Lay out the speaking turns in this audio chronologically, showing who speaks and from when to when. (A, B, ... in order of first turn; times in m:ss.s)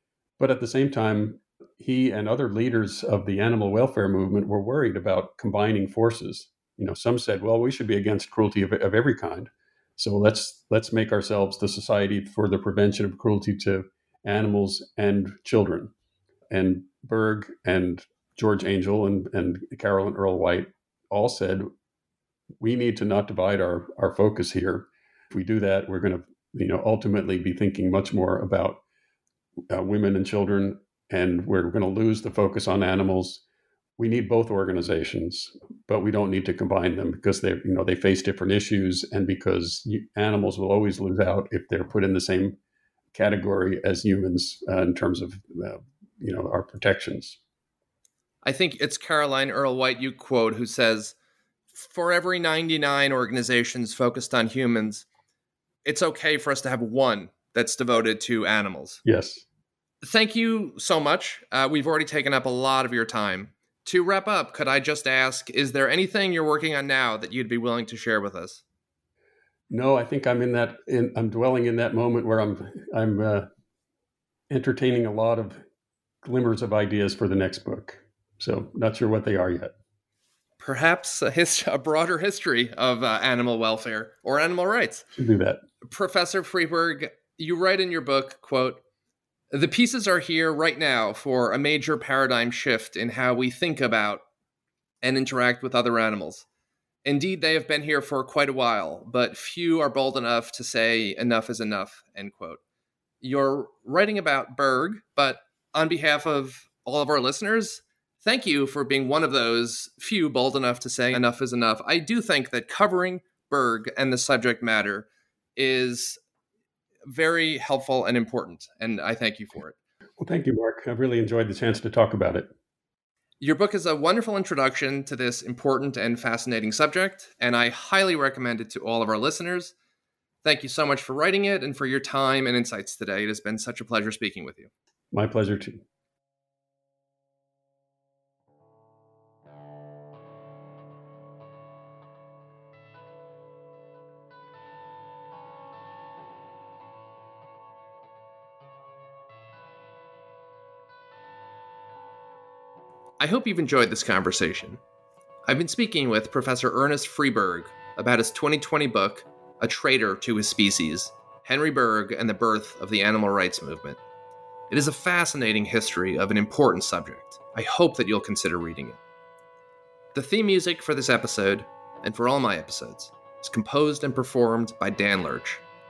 0:00.4-0:15.9 A
0:16.5-0:21.7 A
0:22.6-0:28.8 A
0:29.7-0:33.4 A
0:34.0-0:42.6 A
0:43.1-0:47.4 A
0:48.4-0:51.2 B
0:51.7-0:55.1 B
0:55.8-0:59.0 B
0:59.0-0:59.5 A
1:00.0-1:08.6 B
1:09.7-1:13.5 A
1:14.5-1:15.6 A
1:16.2-1:19.7 A
1:20.6-1:25.1 B
1:25.2-1:25.6 A
1:25.8-1:28.8 B
1:29.5-1:34.2 B
1:35.0-1:36.5 B
1:37.0-1:42.6 B
1:43.2-1:56.2 B
1:57.1-1:59.8 B
2:00.2-2:02.5 A
2:03.4-2:09.7 B
2:10.4-2:14.7 B
2:15.1-2:15.8 A
2:33.2-2:34.8 B
2:35.4-2:44.0 B
2:44.7-2:49.0 B
2:50.1-2:55.6 B